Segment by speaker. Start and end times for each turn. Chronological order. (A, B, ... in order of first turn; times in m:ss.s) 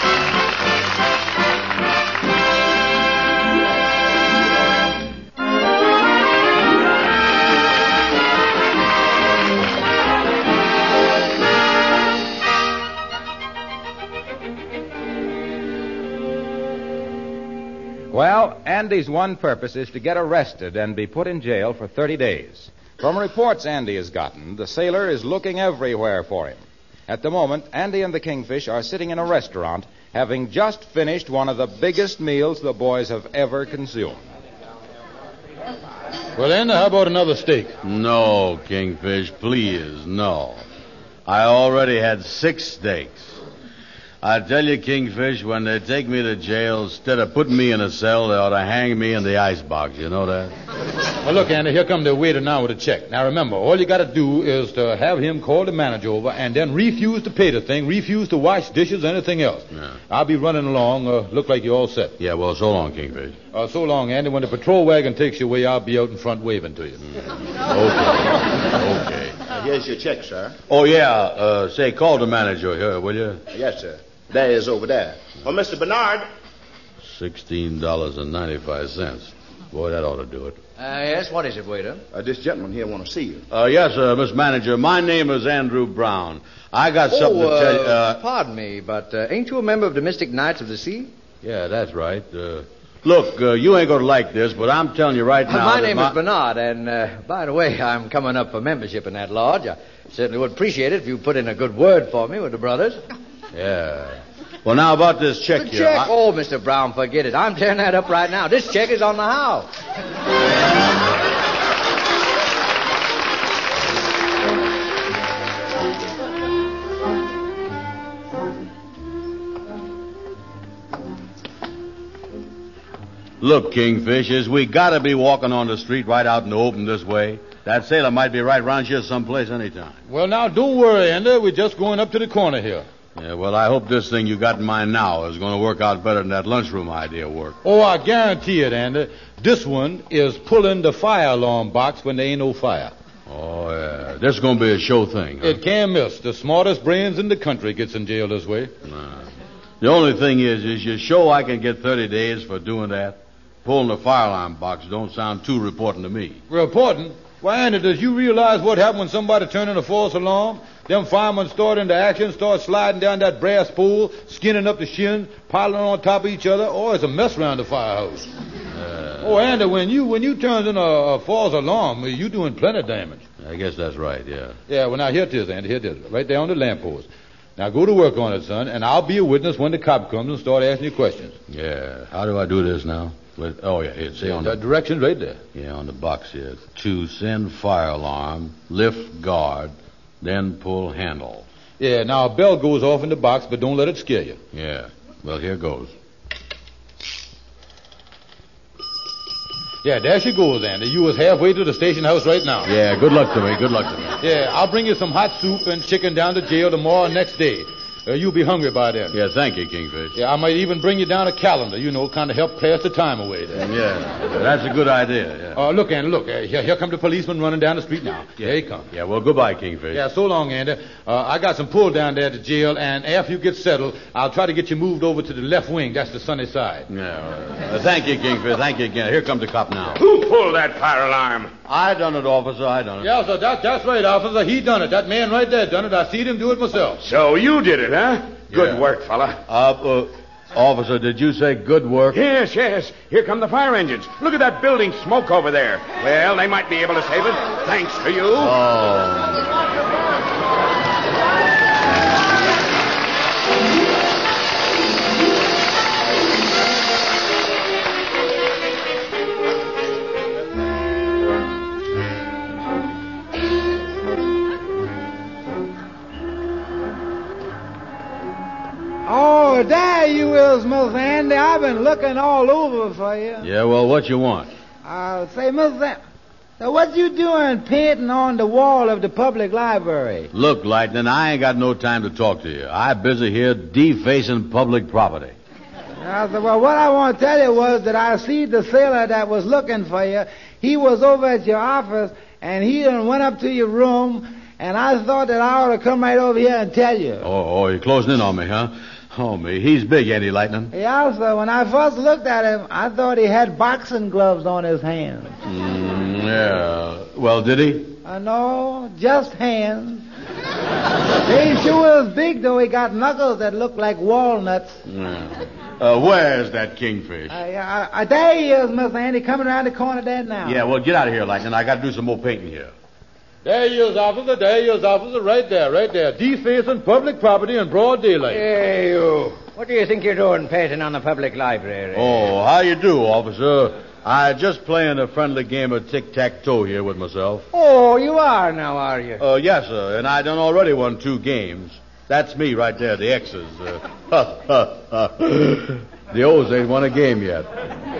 0:18.1-0:34.2 A
0:36.4-0:37.8 B
0:37.8-0:40.6 C
0:41.2-0:43.4 C
0:44.2-0:50.5 C
0:51.2-1:02.1 B
1:02.2-1:03.4 C
1:03.5-1:07.0 B
1:07.5-1:09.4 C
1:09.5-1:10.6 D
1:10.7-1:13.4 C
1:13.5-1:16.3 D
1:17.0-1:20.6 C
1:20.8-1:22.0 E
1:22.1-1:23.4 D
1:23.5-1:28.2 C
1:27.1-1:31.1 E
1:31.4-1:36.2 C
1:35.4-1:43.0 E
1:43.5-1:46.1 C
1:45.5-1:49.7 E
2:03.4-2:10.0 C
2:10.1-2:12.8 B
2:13.1-2:17.6 C
2:17.6-2:22.9 B
2:23.3-2:25.6 C
2:25.4-2:28.7 B
2:28.9-2:29.3 C
2:29.8-2:36.4 C
2:36.5-2:48.3 B
2:48.7-2:49.4 C
2:49.2-2:53.2 B
2:53.4-2:54.6 C
2:54.7-3:01.4 B
3:01.5-3:04.6 C
3:04.2-3:05.4 B
3:05.5-3:11.4 C
3:11.8-3:14.4 B
3:14.5-3:15.9 C
3:19.8-3:22.7 B
3:22.6-3:24.2 C
3:24.2-3:29.2 B
3:29.1-3:30.2 C
3:30.1-3:33.6 B
3:33.5-3:35.6 C
3:35.6-3:38.9 B
3:38.4-3:40.0 C
3:39.9-3:46.9 B
3:46.9-3:50.0 C
3:50.0-3:51.5 F
3:51.6-3:53.1 C
3:53.0-3:57.0 B
3:57.0-3:59.4 F
3:58.5-3:58.8 C
3:59.4-4:02.2 C
4:02.1-4:08.5 F
4:08.4-4:09.4 C
4:29.0-4:33.5 G
4:33.4-4:34.5 C
4:34.8-4:36.0 G
4:36.6-4:40.3 G
4:40.3-4:45.4 C
4:46.0-4:57.2 G
4:57.2-5:00.7 C
5:00.7-5:05.3 G
5:05.4-5:08.0 C
5:08.0-5:10.0 G
5:11.2-5:14.8 G
5:14.8-5:17.4 C
5:17.3-5:20.6 G
5:20.4-5:22.7 C
5:23.4-5:28.4 B
5:28.3-5:32.3 E
5:31.9-5:37.5 C
5:37.5-5:39.2 E
5:39.2-5:47.5 C